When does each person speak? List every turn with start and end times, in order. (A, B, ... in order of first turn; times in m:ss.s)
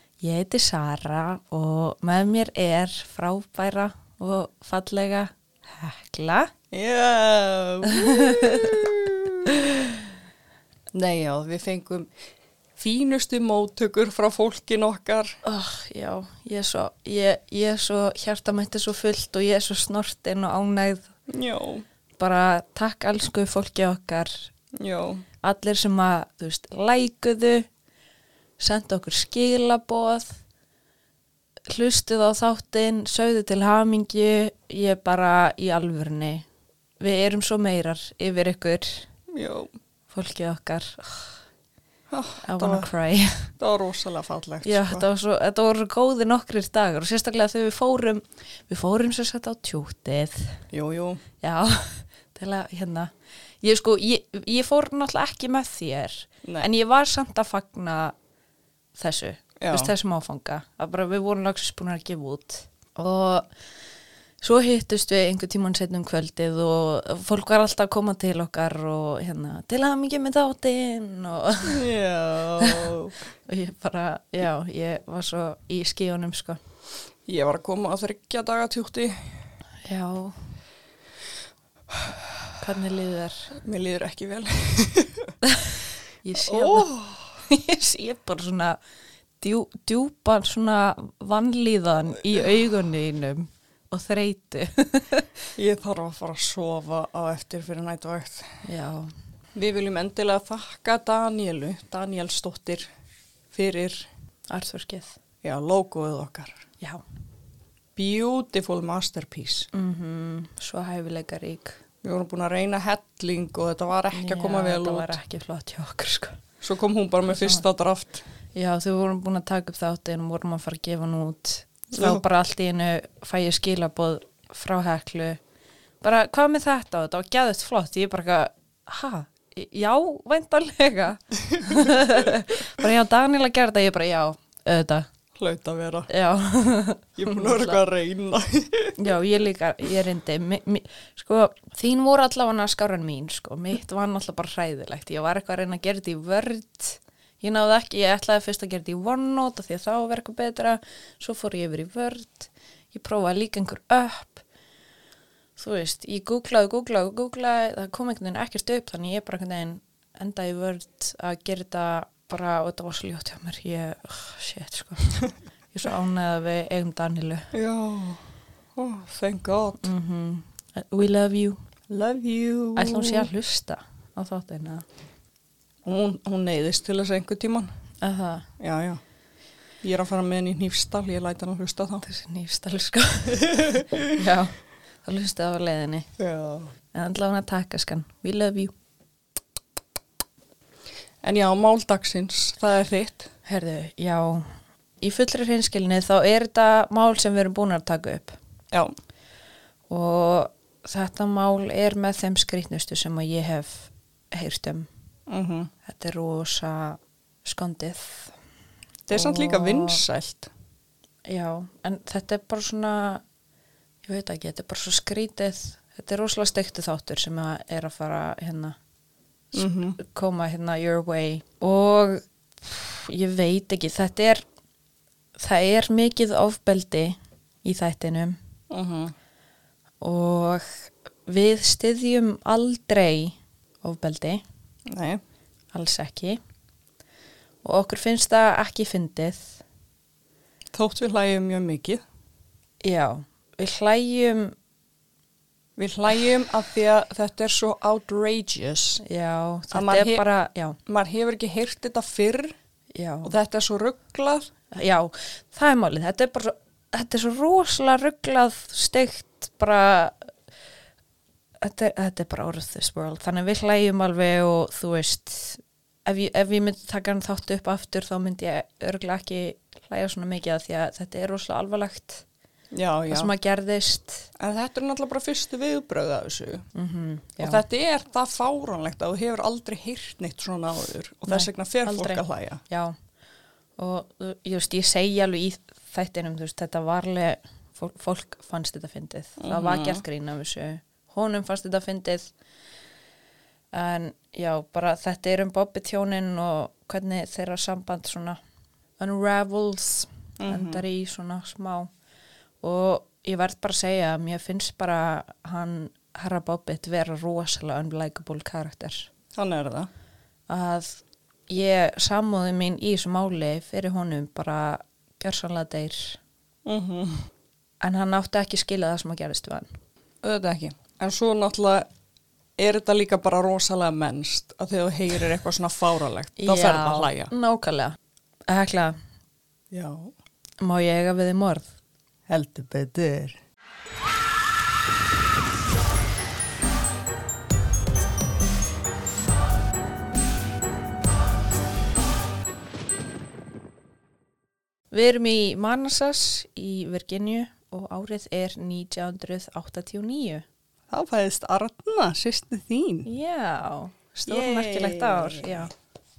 0:00.2-0:06.5 A
0:06.7-0:09.5 B
0:07.9-0:08.9 A
0:09.5-0:10.0 A
0:10.9-0:12.1 B
0:12.8-0:15.4 B
0:15.4-0:21.1 A
0:21.3-0:21.8 B
0:22.2-0:24.5 A
0:24.8-0:25.3 B
0:25.4-0:27.7 A
0:28.6-0:30.3 A
0:31.7-0:36.5 A
0:37.0-0:39.1 A
0:39.3-0:39.7 B
0:40.1-0:41.4 A
0:42.1-0:42.9 B
0:42.4-0:43.5 A
0:43.6-0:45.1 B
0:44.6-0:50.6 A
0:50.7-0:51.2 B
0:51.4-0:58.2 A
0:59.0-1:03.5 A
0:59.6-0:59.9 B
1:04.4-1:11.9 A
1:11.6-1:13.2 B
1:12.6-1:16.6 A
1:17.3-1:19.2 B
1:19.8-1:20.4 A
1:22.6-1:23.5 A
1:23.5-1:25.3 B
1:25.4-1:26.9 A
1:26.4-1:27.4 B
1:27.5-1:28.8 A
1:29.4-1:35.3 A
1:35.6-1:38.5 B
1:38.6-1:39.1 A
1:39.6-1:42.9 B
1:43.5-1:44.1 B
1:44.5-1:45.2 A
1:45.4-1:46.7 B
1:48.0-1:49.7 B
1:49.7-1:51.8 A
1:52.0-1:55.2 B
1:54.1-1:56.4 A
1:56.6-1:58.2 B
1:57.3-1:57.6 A
1:58.6-2:05.4 A
2:01.9-2:02.2 B
2:06.0-2:15.1 A
2:11.6-2:11.9 B
2:15.4-2:16.1 B
2:16.1-2:17.8 A
2:17.2-2:19.0 B
2:19.0-2:34.4 A
2:35.6-2:45.2 A
2:45.7-2:47.5 A
2:47.5-2:48.2 B
2:48.8-2:49.9 B
2:49.8-2:51.6 A
2:51.9-2:53.3 B
2:52.8-2:54.8 A
2:55.8-2:57.7 B
2:58.0-2:58.5 A
2:58.6-2:59.0 B
2:59.8-3:02.1 B
3:02.0-3:06.1 A
3:03.4-3:04.1 B
3:06.2-3:06.7 B
3:06.9-3:08.7 A
3:11.2-3:13.3 B
3:13.4-3:18.4 A
3:19.9-3:24.9 A
3:25.3-3:25.7 B
3:25.8-3:28.3 A
3:29.1-3:30.5 B
3:29.1-3:30.0 A
3:31.3-3:33.2 A
3:34.0-3:38.8 A
3:39.5-3:40.0 B
3:39.6-3:44.4 A
3:45.4-3:48.4 A
3:48.7-3:49.1 B
3:50.0-3:54.4 A
3:54.9-3:55.2 B
3:55.7-3:56.4 A
3:57.6-3:59.6 A
4:00.7-4:02.0 B
4:02.8-4:04.6 A
4:05.8-4:09.0 B
4:09.0-4:10.8 A
4:09.7-4:10.2 B
4:10.9-4:12.6 B
4:12.9-4:13.4 A
4:13.2-4:14.5 B
4:14.7-4:20.3 A
4:21.6-4:32.2 A
4:32.7-4:33.3 B
4:33.1-4:34.3 A
4:34.4-4:36.7 B
4:36.7-4:37.6 A
4:37.4-4:42.6 B
4:41.3-4:43.0 A
4:43.8-4:52.3 A
4:49.4-4:50.0 B
4:53.7-4:58.4 A
4:59.0-5:01.9 A
5:00.4-5:00.8 B
5:02.6-5:09.1 A
5:09.4-5:09.9 B
5:10.5-5:16.2 A
5:16.7-5:17.3 B
5:17.8-5:19.7 A
5:20.2-5:21.9 B
5:22.6-5:27.3 B
5:26.4-5:28.0 A
5:28.5-5:29.0 A
5:29.7-5:30.1 B
5:30.6-5:31.7 A
5:32.3-5:33.4 B
5:44.9-5:50.4 A
5:50.9-5:53.1 B
5:53.1-5:55.7 A
5:54.2-5:55.6 B